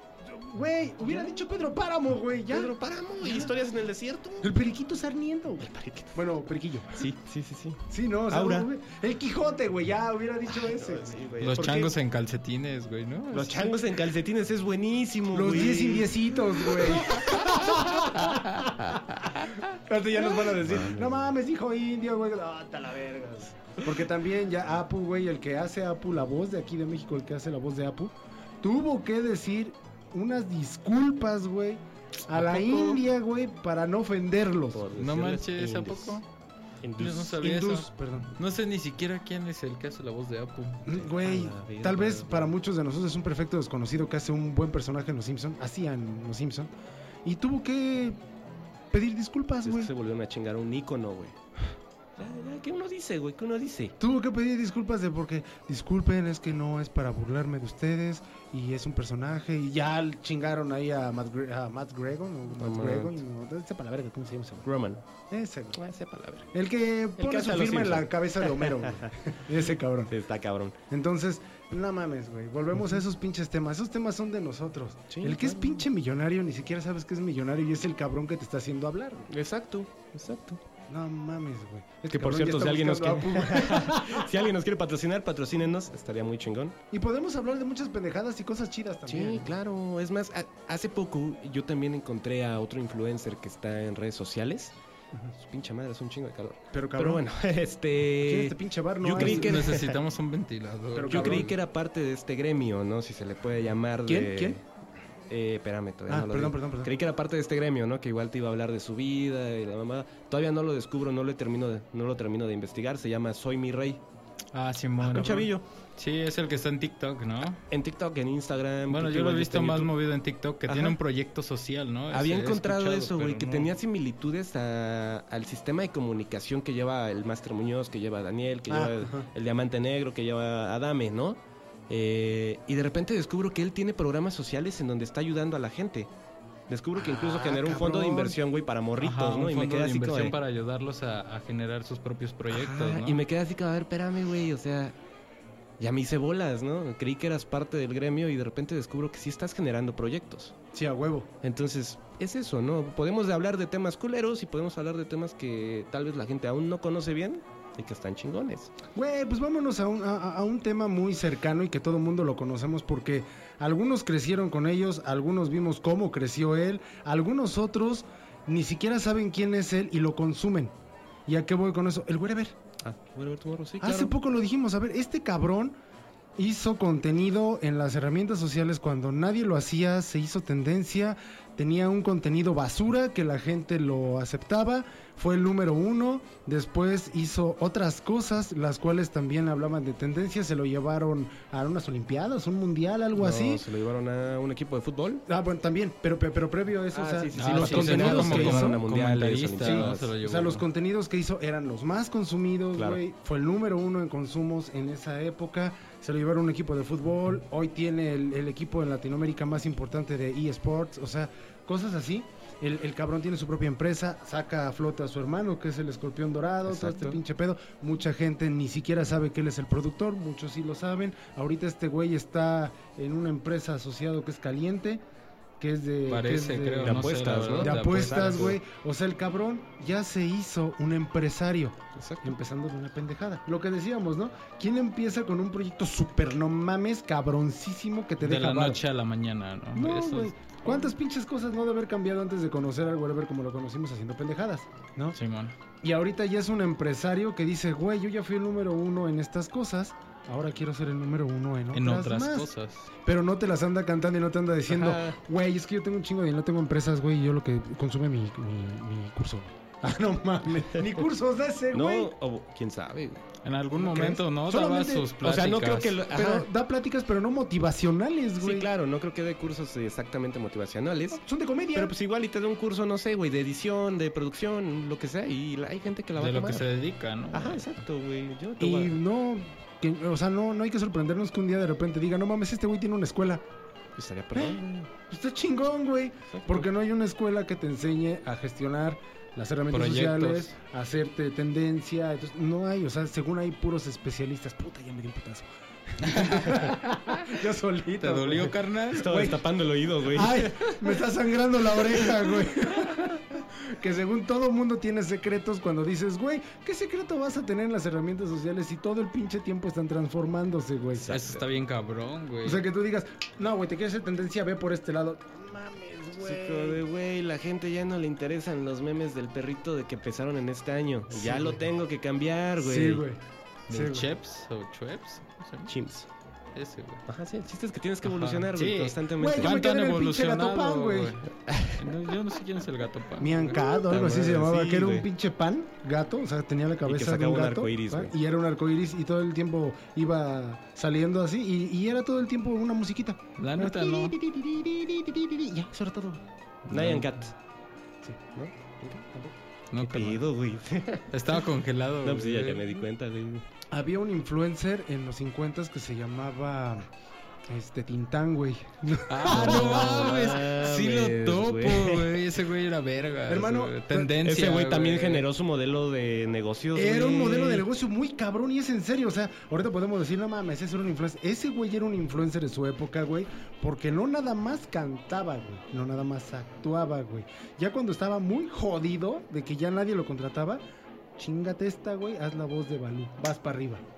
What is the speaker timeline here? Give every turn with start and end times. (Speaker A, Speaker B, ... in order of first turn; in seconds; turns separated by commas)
Speaker A: 0.3-3.5, Speaker B: 2.5-4.5, Speaker A: 4.4-7.1, Speaker B: 5.6-6.2, Speaker B: 6.9-8.7, Speaker A: 7.9-11.2, Speaker B: 10.6-11.9, Speaker C: 11.4-13.7, Speaker B: 13.3-17.1, Speaker A: 15.3-34.9, Speaker B: 20.6-21.2, Speaker C: 32.3-33.0, Speaker B: 34.7-36.2, Speaker C: 35.0-36.2, Speaker B: 36.8-37.3, Speaker C: 37.0-40.8, Speaker A: 37.3-38.3, Speaker A: 40.8-46.7, Speaker B: 40.9-42.5, Speaker A: 47.2-48.2, Speaker A: 48.9-49.9, Speaker B: 49.6-51.4, Speaker B: 52.2-53.9, Speaker A: 54.0-64.7, Speaker B: 62.6-63.2, Speaker B: 64.6-65.0, Speaker A: 65.3-65.8, Speaker B: 65.7-66.5, Speaker A: 66.5-70.1, Speaker B: 67.2-69.1, Speaker B: 70.1-70.8, Speaker A: 70.9-79.3, Speaker B: 75.1-75.8, Speaker B: 79.3-80.6, Speaker A: 80.9-84.3, Speaker B: 82.1-86.8, Speaker A: 86.9-89.5, Speaker B: 89.1-94.7, Speaker B: 95.4-100.0, Speaker A: 96.7-97.2, Speaker A: 98.2-99.8, Speaker C: 99.1-101.5, Speaker A: 100.9-101.5, Speaker B: 101.0-104.6, Speaker A: 104.1-104.6, Speaker B: 105.3-114.0, Speaker A: 106.1-106.9, Speaker C: 114.5-117.6, Speaker B: 115.0-115.6, Speaker B: 117.7-119.9, Speaker C: 118.9-123.7, Speaker B: 120.7-121.0, Speaker B: 122.1-136.1, Speaker A: 128.7-129.3, Speaker B: 136.7-140.4, Speaker A: 136.9-138.4, Speaker C: 139.0-143.2, Speaker B: 142.5-144.9, Speaker B: 145.8-150.6, Speaker A: 150.7-151.3, Speaker B: 151.4-158.7, Speaker A: 158.9-170.7, Speaker A: 171.2-172.5, Speaker B: 172.8-174.1, Speaker A: 173.8-175.8, Speaker A: 176.4-193.7, Speaker B: 193.1-195.2, Speaker A: 195.3-198.8, Speaker B: 196.9-200.1, Speaker C: 197.3-200.6, Speaker A: 199.6-225.0, Speaker B: 216.7-217.2, Speaker A: 225.6-238.8, Speaker C: 226.1-228.5, Speaker B: 226.8-228.6, Speaker B: 231.9-232.3, Speaker C: 238.2-240.3, Speaker A: 239.7-245.2, Speaker C: 245.1-245.5, Speaker A: 245.8-252.5, Speaker C: 251.7-252.9, Speaker A: 253.0-262.1, Speaker B: 254.7-255.2, Speaker B: 261.7-263.2, Speaker C: 263.4-266.0, Speaker A: 263.7-265.1, Speaker B: 265.2-266.5, Speaker A: 266.1-268.7, Speaker B: 268.4-271.2, Speaker A: 271.1-271.9, Speaker B: 271.7-276.7, Speaker C: 276.2-277.8, Speaker B: 277.3-278.9, Speaker A: 278.6-283.4, Speaker B: 284.0-284.8, Speaker A: 284.3-299.4, Speaker B: 286.3-286.6, Speaker C: 289.7-290.5, Speaker C: 296.0-296.6, Speaker C: 298.0-299.2, Speaker B: 298.9-300.9, Speaker A: 300.1-311.1, Speaker B: 310.9-311.4, Speaker C: 311.1-312.6, Speaker A: 312.4-316.8, Speaker B: 316.2-323.0, Speaker A: 321.1-321.6, Speaker A: 322.6-324.1, Speaker C: 323.7-325.7, Speaker B: 325.7-326.1, Speaker C: 326.5-327.0, Speaker B: 327.1-329.5, Speaker C: 328.0-333.6, Speaker A: 329.2-331.1, Speaker B: 331.5-331.7, Speaker A: 333.2-346.2, Speaker B: 333.6-335.1, Speaker B: 336.8-338.1, Speaker C: 343.4-344.1, Speaker C: 346.7-347.1, Speaker B: 346.7-347.3, Speaker B: 348.3-351.4, Speaker C: 349.7-350.2, Speaker C: 351.1-352.6, Speaker B: 352.0-353.4, Speaker A: 353.7-356.9, Speaker A: 357.5-360.4, Speaker C: 359.1-365.2, Speaker B: 359.3-362.2, Speaker A: 363.3-364.1, Speaker B: 364.2-367.6, Speaker A: 366.7-380.6, Speaker A: 381.2-383.8